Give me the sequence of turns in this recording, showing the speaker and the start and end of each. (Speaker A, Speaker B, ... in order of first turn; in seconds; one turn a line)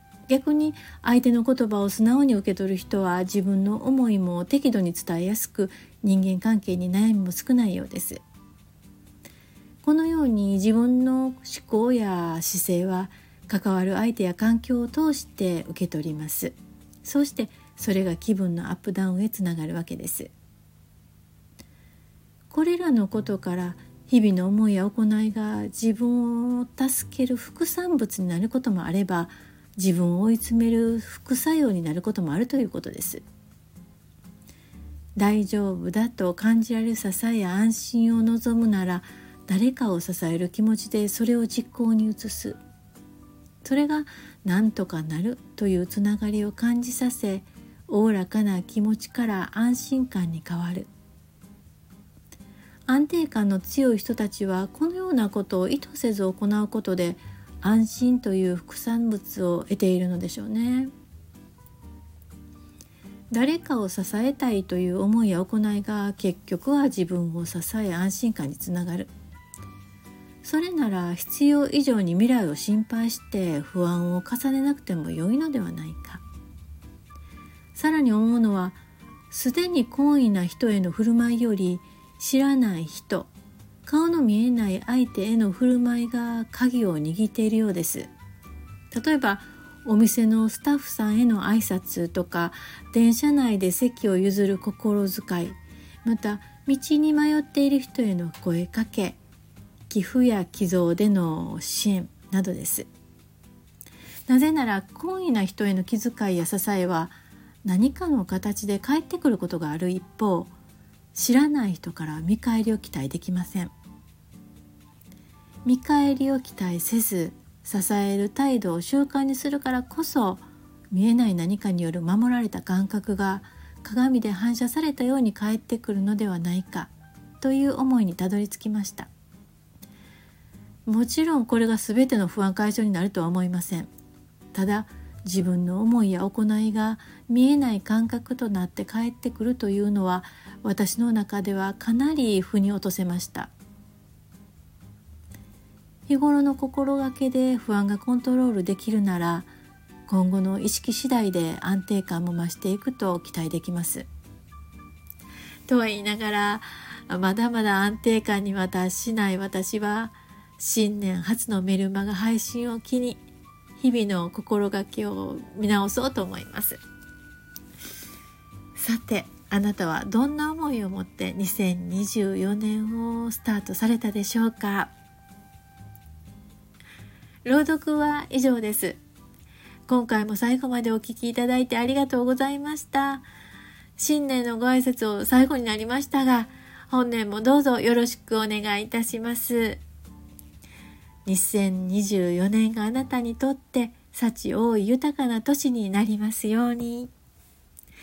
Speaker A: 0.3-8.2
Speaker A: 9.8-20.3
Speaker A: 22.5-33.2
Speaker A: 35.2-42.6
Speaker A: 43.6-50.9
Speaker A: 52.9-60.9
Speaker A: 63.3-69.1
Speaker A: 70.4-76.2
Speaker A: 77.8-78.8
Speaker A: 79.3-83.3
Speaker A: 83.9-88.1
Speaker A: 88.9-99.2
Speaker A: 99.9-102.9
Speaker A: 104.3-110.5
Speaker A: 111.1-113.7
Speaker A: 115.6-129.1
Speaker A: 130.9-133.9
Speaker A: 134.5-143.5
Speaker A: 146.1-149.5
Speaker A: 150.1-154.1
Speaker A: 155.7-163.2
Speaker A: 163.8-166.8
Speaker A: 168.8-174.9
Speaker A: 177.4-179.0
Speaker A: 179.9-183.2
Speaker A: 184.0-189.8
Speaker A: 191.3-197.1